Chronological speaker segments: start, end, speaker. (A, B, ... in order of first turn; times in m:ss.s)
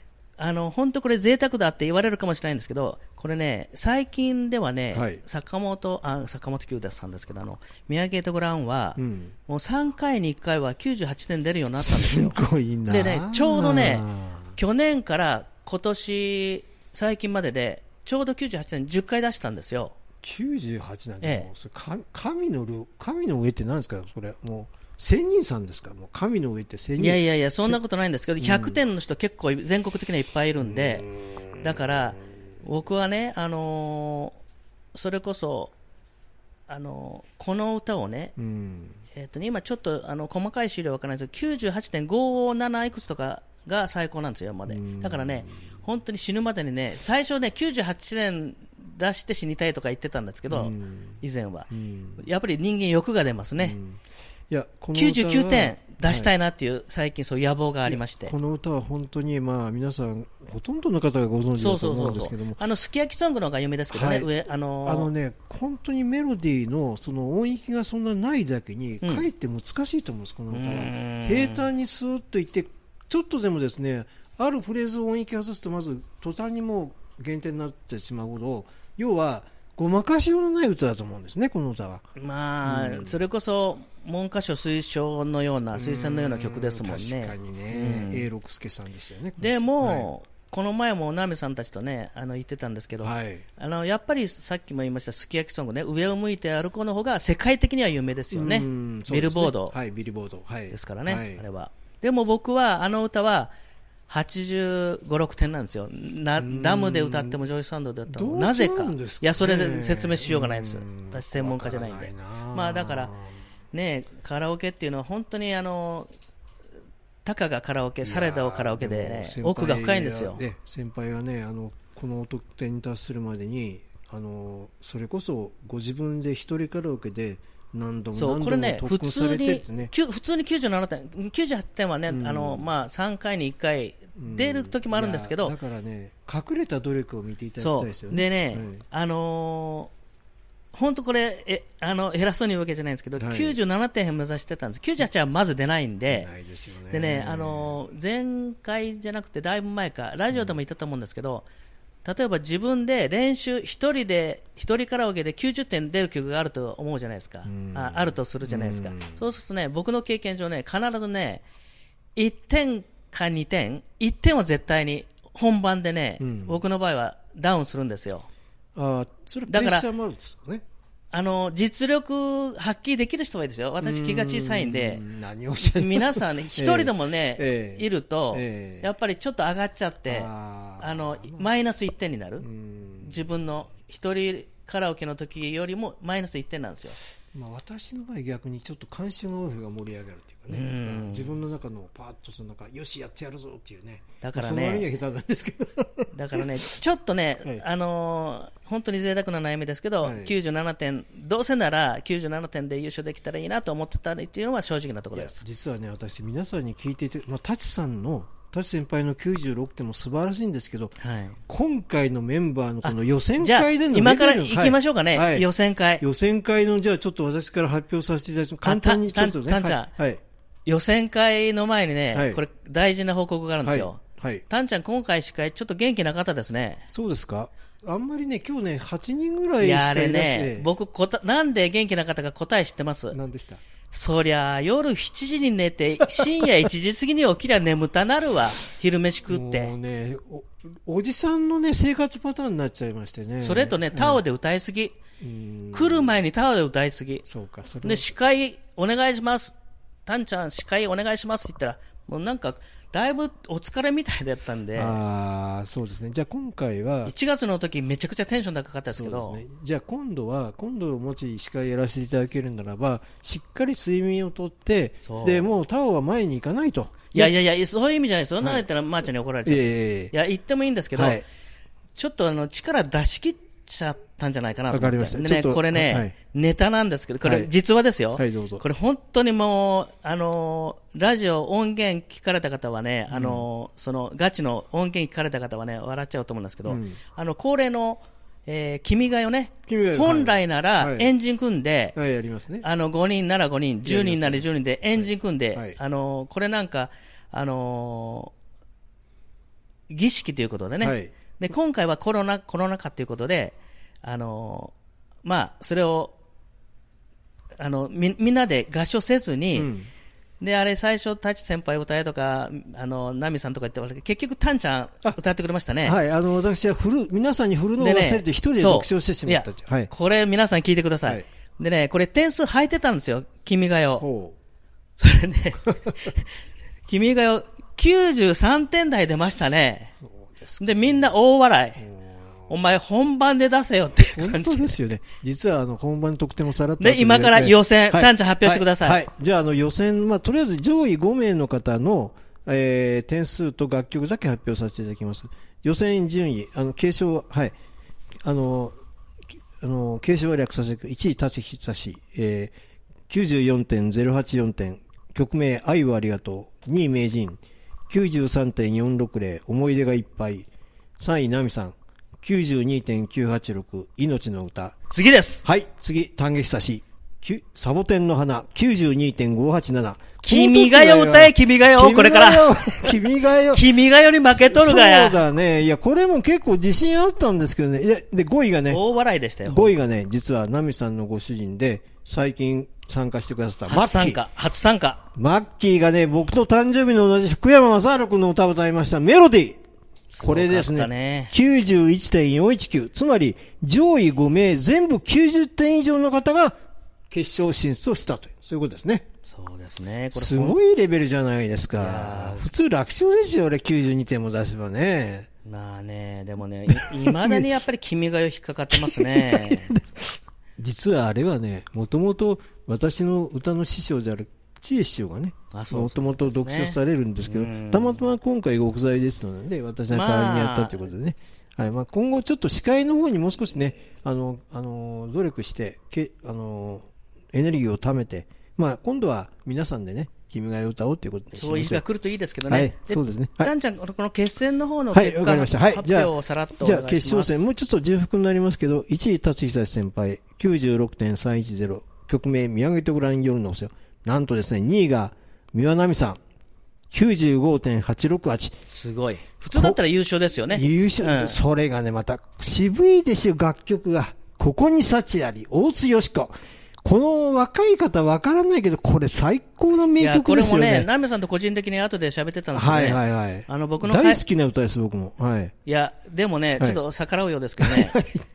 0:00.4-0:19.9 A
0:04.9-0:05.2 B
0:09.0-0:09.3 B
0:11.8-0:14.6 B
0:20.2-0:27.8 B
0:21.2-0:21.5 A
0:27.0-0:31.1 A
0:28.4-0:28.8 B
0:30.6-0:32.0 B
0:31.6-0:34.4 A
0:34.9-0:35.7 A
0:36.7-0:38.3 A
0:38.4-0:39.0 B
0:39.1-0:53.8 A
0:44.7-0:45.7 B
0:50.5-0:51.2 B
0:51.7-0:52.2 B
0:53.6-0:56.3 B
0:54.9-0:58.3 A
0:57.9-1:02.6 B
1:01.6-1:05.1 A
1:03.9-1:04.3 B
1:04.8-1:22.0 B
1:10.5-1:11.7 A
1:22.2-1:28.3 A
1:22.6-1:23.2 B
1:25.7-1:30.1 B
1:29.4-1:39.7 A
1:33.0-1:33.4 B
1:38.3-1:41.4 B
1:40.7-1:43.5 A
1:44.1-1:53.1 A
1:46.4-1:47.4 B
1:48.1-1:53.4 B
1:53.7-1:56.1 A
1:57.2-2:00.4 A
1:58.0-2:09.9 B
2:08.1-2:15.5 A
2:12.1-2:12.7 B
2:14.2-2:18.8 B
2:17.6-2:19.9 A
2:20.7-2:26.3 A
2:23.2-2:23.6 B
2:26.1-2:27.8 B
2:26.9-2:31.4 A
2:30.3-2:30.6 B
2:32.0-2:41.4 A
2:37.4-2:39.2 B
2:42.2-2:48.3 A
2:46.2-2:46.6 B
2:48.7-2:50.6 B
2:49.5-2:49.8 A
2:51.1-2:55.0 A
2:53.8-2:58.9 B
2:55.6-3:02.4 A
3:00.1-3:01.5 B
3:02.4-3:03.2 B
3:03.0-3:07.0 A
3:07.3-3:16.5 B
3:10.5-3:11.4 A
3:14.2-3:14.9 A
3:16.1-3:25.4 A
3:20.0-3:20.3 B
3:25.1-3:31.0 B
3:31.0-3:31.4 A
3:31.5-3:35.5 B
3:32.8-3:36.0 A
3:36.0-3:40.2 B
3:38.6-3:39.9 A
3:40.6-3:46.8 A
3:42.1-3:42.4 B
3:43.6-3:44.4 B
3:46.9-3:50.7 B
3:49.6-3:53.2 A
3:53.1-3:53.6 B
3:53.9-3:59.7 A
3:59.3-4:04.2 B
4:03.4-4:05.0 A
4:05.2-4:06.2 B
4:05.7-4:07.2 A
4:07.2-4:08.1 B
4:07.8-4:09.5 A
4:10.0-4:15.0 A
4:14.7-4:17.1 B
4:17.0-4:19.4 A
4:18.8-4:27.3 B
4:25.0-4:25.6 A
4:27.1-4:31.2 A
4:28.4-4:28.6 B
4:29.4-4:30.1 B
4:30.9-4:31.2 B
4:32.0-4:52.0 A
4:34.7-4:36.1 B
4:37.2-4:37.5 B
4:38.2-4:38.6 B
4:43.1-4:43.5 B
4:46.6-4:47.0 B
4:49.7-4:51.1 B
4:51.9-4:52.6 B
4:52.6-4:58.3 A
4:53.8-4:55.8 B
4:59.9-5:04.7 A
5:00.8-5:01.1 B
5:05.2-5:06.1 A
5:07.6-5:09.7 A
5:09.5-5:09.9 B
5:10.4-5:16.0 A
5:15.8-5:19.9 B
5:17.8-5:24.0 A
5:24.0-5:24.4 B
5:25.0-5:26.3 A
5:26.9-5:29.9 A
5:30.0-5:31.1 B
5:30.6-5:31.8 A
5:31.8-5:32.7 B
5:32.5-5:34.8 A
5:34.2-5:47.5 B
5:36.8-5:39.0 A
5:48.2-5:48.8 B
5:49.6-5:52.5 B
5:53.1-6:04.8 B
6:04.9-6:05.4 A
6:05.4-6:13.7 B
6:10.2-6:13.0 A
6:13.5-6:15.2 A
6:14.3-6:18.8 B
6:18.7-6:19.7 A
6:19.4-6:24.2 B
6:23.7-6:25.0 A
6:25.2-6:29.6 B
6:30.1-6:31.3 A
6:30.2-6:36.6 B
6:37.1-6:39.0 B
6:39.2-6:40.6 A
6:40.1-6:45.3 B
6:41.8-6:42.5 A
6:45.4-6:49.7 A
6:46.7-6:47.5 B
6:48.7-7:11.8 B
6:55.5-6:58.0 A
6:59.9-7:00.8 A
7:11.3-7:17.4 A
7:12.5-7:13.5 B
7:14.9-7:26.2 B
7:26.9-7:28.5 B
7:28.7-7:31.4 A
7:29.5-7:29.8 B
7:30.5-7:36.3 B
7:36.8-7:40.9 B
7:40.0-7:44.2 A
7:42.5-7:45.5 B
7:45.6-7:48.0 A
7:47.6-7:48.2 B